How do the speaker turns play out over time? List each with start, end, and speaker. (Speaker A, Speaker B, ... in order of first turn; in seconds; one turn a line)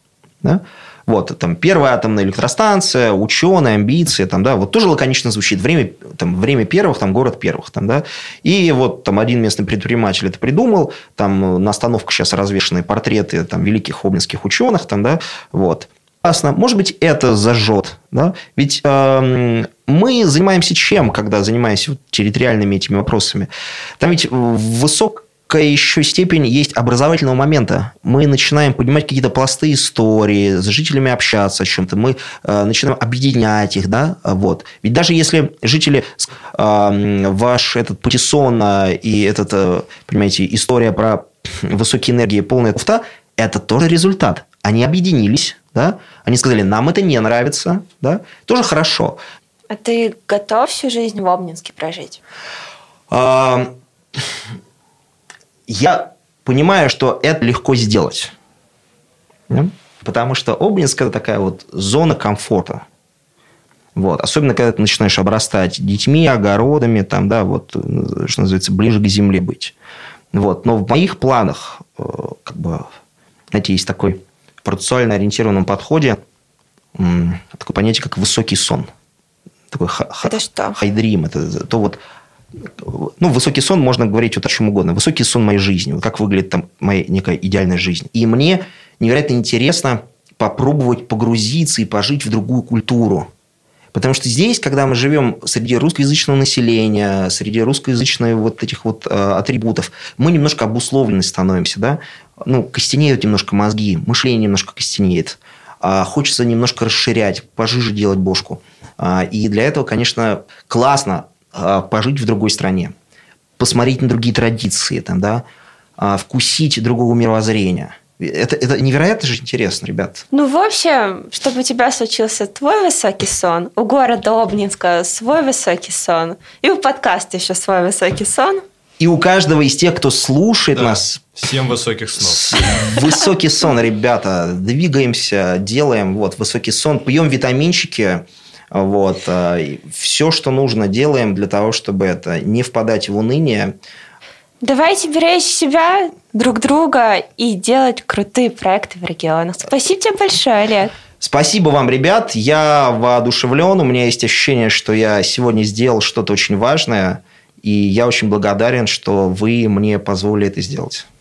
Speaker A: 0.4-49.2
Speaker B: 49.7-52.2
Speaker A: 53.1-53.7
Speaker A: 55.7-58.3
Speaker A: 59.5-62.9
Speaker A: 64.0-69.8
Speaker A: 70.3-72.9
Speaker A: 73.5-76.2
Speaker A: 77.0-78.9
Speaker A: 79.7-82.0
Speaker B: 80.2-80.8
Speaker A: 82.7-93.3
Speaker A: 93.9-112.9
Speaker A: 113.6-115.4
Speaker A: 116.0-120.2
Speaker B: 120.3-128.6
Speaker A: 129.0-131.2
Speaker C: 130.7-132.9
Speaker A: 132.2-143.8
Speaker B: 144.6-150.9
Speaker A: 151.2-161.1